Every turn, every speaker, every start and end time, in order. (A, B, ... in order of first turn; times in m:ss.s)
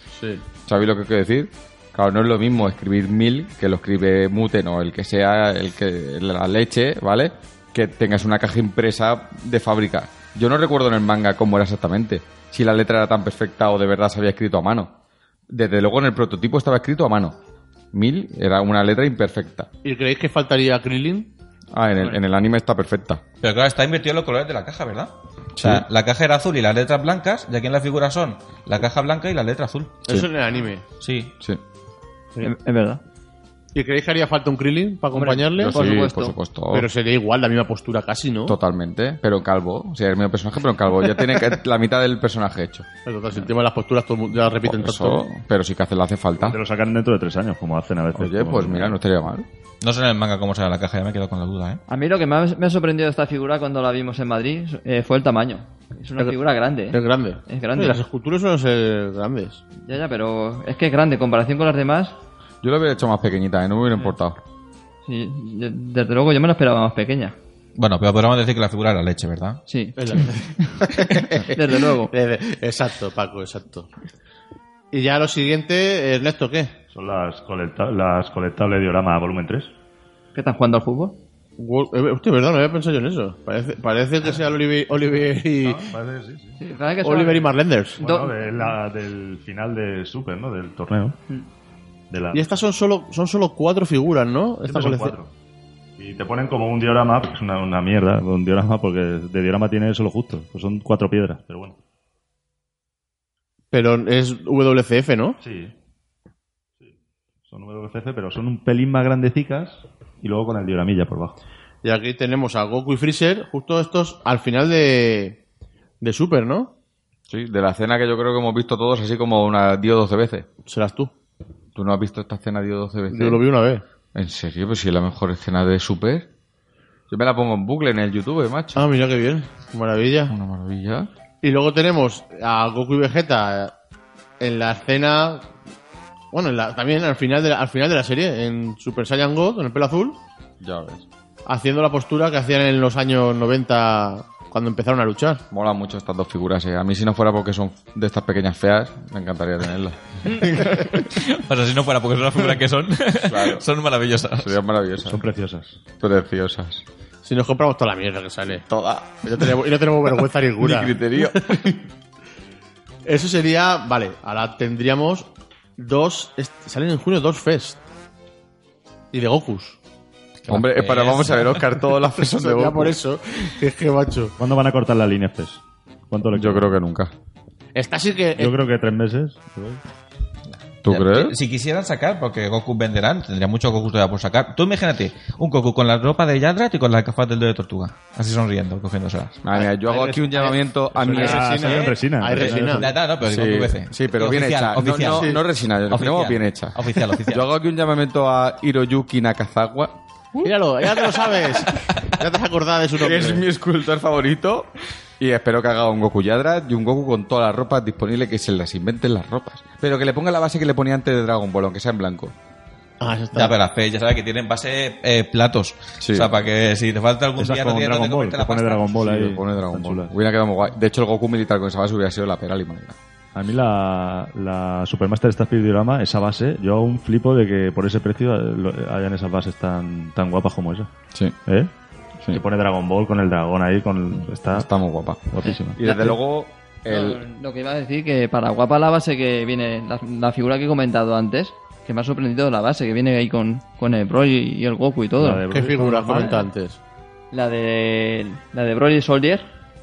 0:00.2-0:00.4 A
0:00.6-0:14.9 B
0:15.5-0:17.4 B
0:17.9-0:19.7 B
0:19.8-0:21.3 A
0:21.7-0:23.2 B
0:23.4-0:30.0 C
0:25.6-0:25.8 B
0:30.0-0:30.8 A
0:31.0-0:31.3 C
0:32.4-0:33.0 D
0:33.7-0:35.8 A
0:35.1-0:36.4 D
0:35.6-0:36.9 B
0:36.7-0:38.6 A
0:38.4-0:42.9 B
0:43.0-0:45.2 A
0:44.6-0:46.6 B
0:46.4-0:49.0 E
0:48.1-0:49.4 B
0:49.8-0:51.8 C
0:51.9-0:58.0 D
0:56.9-0:59.6 A
0:59.8-1:02.1 D
1:02.6-1:04.4 B
1:05.0-1:07.3 D
1:07.8-1:09.6 C
1:09.7-1:10.3 D
1:10.0-1:13.9 A
1:11.4-1:12.1 D
1:14.9-1:16.7 A
1:16.9-1:19.7 E
1:20.3-1:21.2 D
1:21.6-1:25.8 A
1:25.1-1:26.6 E
1:26.6-1:28.8 D
1:27.0-1:28.0 A
1:28.0-1:31.2 E
1:32.1-1:32.5 E
1:32.3-1:35.1 A
1:34.6-1:35.3 E
1:36.0-1:41.8 E
1:43.7-1:45.4 A
1:45.4-1:45.7 E
1:47.5-1:51.4 E
1:51.8-1:55.4 A
1:56.0-1:56.7 A
1:57.3-2:00.5 B
2:00.7-2:01.1 A
2:01.7-2:03.4 B
2:03.1-2:03.8 A
2:04.1-2:06.3 B
2:07.1-2:08.8 B
2:08.8-2:10.3 A
2:10.3-2:11.1 B
2:11.4-2:13.7 A
2:14.4-2:15.5 A
2:16.3-2:20.2 A
2:20.6-2:21.0 B
2:21.4-2:25.4 A
2:25.5-2:30.9 B
2:30.4-2:34.6 C
2:33.2-2:33.6 B
2:34.4-2:35.2 B
2:35.1-2:35.8 E
2:36.0-2:36.8 B
2:37.2-2:38.6 A
2:38.6-2:39.5 B
2:39.2-2:41.6 A
2:40.6-2:41.8 B
2:43.0-2:47.8 A
2:49.1-2:49.8 A
2:50.4-2:51.6 C
2:50.5-2:53.0 B
2:52.3-2:54.4 A
2:54.4-2:56.7 E
2:56.3-2:57.1 B
2:57.7-2:58.6 A
2:58.4-2:59.8 E
3:00.8-3:01.4 B
3:00.8-3:09.4 C
3:09.4-3:11.8 B
3:09.5-3:12.9 A
3:10.9-3:12.9 E
3:11.3-3:17.5 C
3:13.2-3:20.0 B
3:14.8-3:15.4 A
3:20.4-3:23.4 A
3:22.9-3:32.3 B
3:33.0-3:33.5 A
3:33.3-3:38.9 C
3:36.0-3:36.3 B
3:37.4-3:40.1 E
3:39.0-3:43.0 B
3:43.3-3:50.9 E
3:52.3-3:54.7 E
3:54.5-3:57.2 B
3:55.3-3:56.2 E
3:56.9-4:05.4 D
4:05.2-4:06.4 E
4:05.5-4:06.8 A
4:06.0-4:06.4 D
4:07.3-4:09.4 D